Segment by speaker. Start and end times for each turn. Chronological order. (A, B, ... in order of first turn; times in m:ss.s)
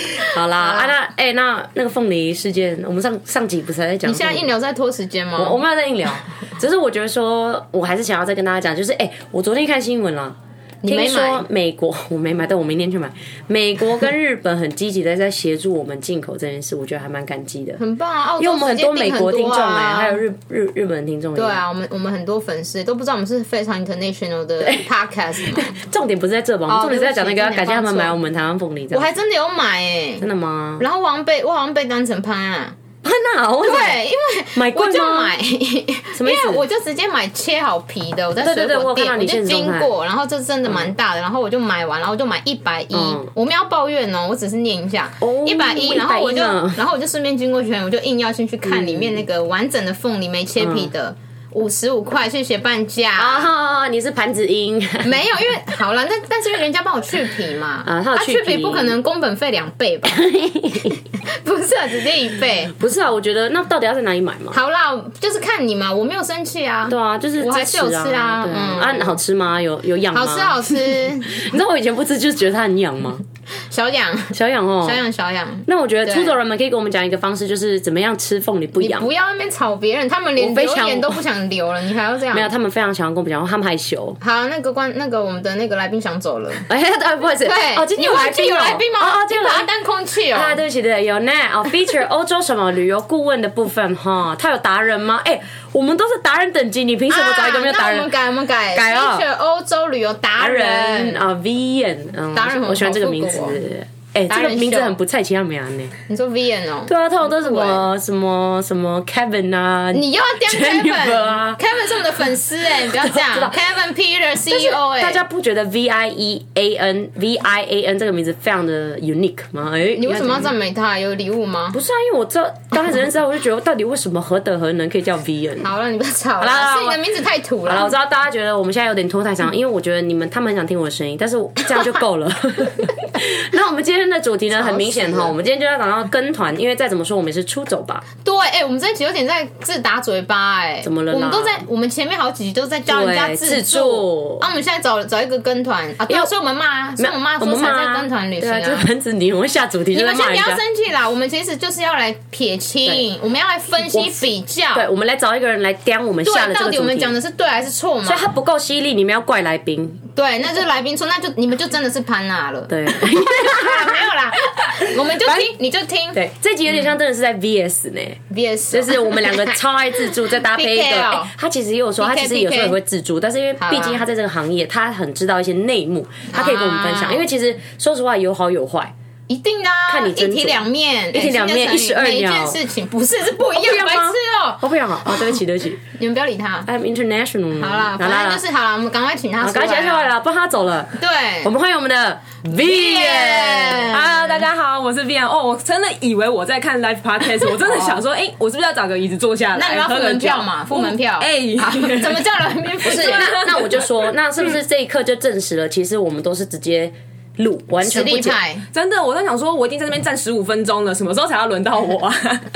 0:00.2-0:00.9 A
0:00.2-0:04.5 B
0:04.0-0:05.6 A
0:05.4-0:17.8 B
0:10.8-0:11.4 A
0:17.8-0:20.2 A
0:18.4-0:21.6 B
0:21.3-0:25.8 A
0:25.5-0:29.1 B
0:26.7-0:28.2 A
0:28.9-0:30.2 A
0:30.2-0:30.8 B
0:30.8-0:32.8 A
0:33.0-0:34.0 B
0:33.6-0:53.5 A
0:34.5-0:35.3 B
0:36.1-0:36.6 B
0:38.4-0:39.9 B
0:42.9-0:43.3 B
0:45.2-0:46.8 B
0:48.6-0:49.2 B
0:50.6-0:50.9 B
0:53.2-0:55.1 B
0:55.0-1:00.2 A
0:57.8-0:58.9 B
1:00.0-1:01.0 B
1:01.2-1:02.7 A
1:02.8-1:04.6 B
1:04.5-1:09.1 A
1:06.9-1:13.2 B
1:10.1-1:11.4 A
1:13.7-1:16.3 A
1:14.3-1:15.0 B
1:15.6-1:19.1 B
1:18.8-1:22.5 A
1:20.4-1:21.2 B
1:22.3-1:24.2 B
1:24.2-1:26.7 A
1:26.7-1:29.7 B
1:27.4-1:30.6 A
1:30.3-1:38.1 B
1:37.1-1:41.2 A
1:38.7-1:39.2 B
1:40.4-1:45.9 B
1:42.3-1:43.6 A
1:44.3-1:45.0 A
1:46.1-1:47.8 A
1:46.8-1:51.6 B
1:49.9-1:55.2 A
1:52.9-1:53.6 B
1:54.5-2:00.5 B
2:00.0-2:01.8 A
2:01.7-2:05.7 B
2:05.6-2:07.9 A
2:06.4-2:07.0 B
2:07.6-2:18.0 B
2:14.5-2:15.3 A
2:18.2-2:28.9 A
2:20.8-2:21.6 B
2:22.9-2:24.4 B
2:27.0-2:30.6 B
2:29.9-2:34.9 A
2:33.9-2:37.1 B
2:36.2-2:38.3 A
2:38.0-2:40.0 B
2:40.1-2:46.2 A
2:42.7-2:44.0 B
2:44.7-2:45.5 B
2:46.1-2:48.2 B
2:48.3-2:51.3 A
2:48.7-2:58.9 B
2:52.0-2:52.8 A
2:53.6-2:54.0 A
2:56.3-2:57.2 A
2:59.3-3:04.6 A
2:59.9-3:02.6 B
3:03.4-3:05.8 B
3:06.0-3:06.7 A
3:06.6-3:08.4 B
3:07.6-3:10.1 A
3:09.4-3:13.9 B
3:11.0-3:11.5 A
3:12.5-3:14.2 A
3:13.9-3:22.2 C
3:19.5-3:23.6 A
3:22.8-3:28.4 B
3:22.9-3:23.8 C
3:27.8-3:28.6 A
3:28.7-3:32.4 C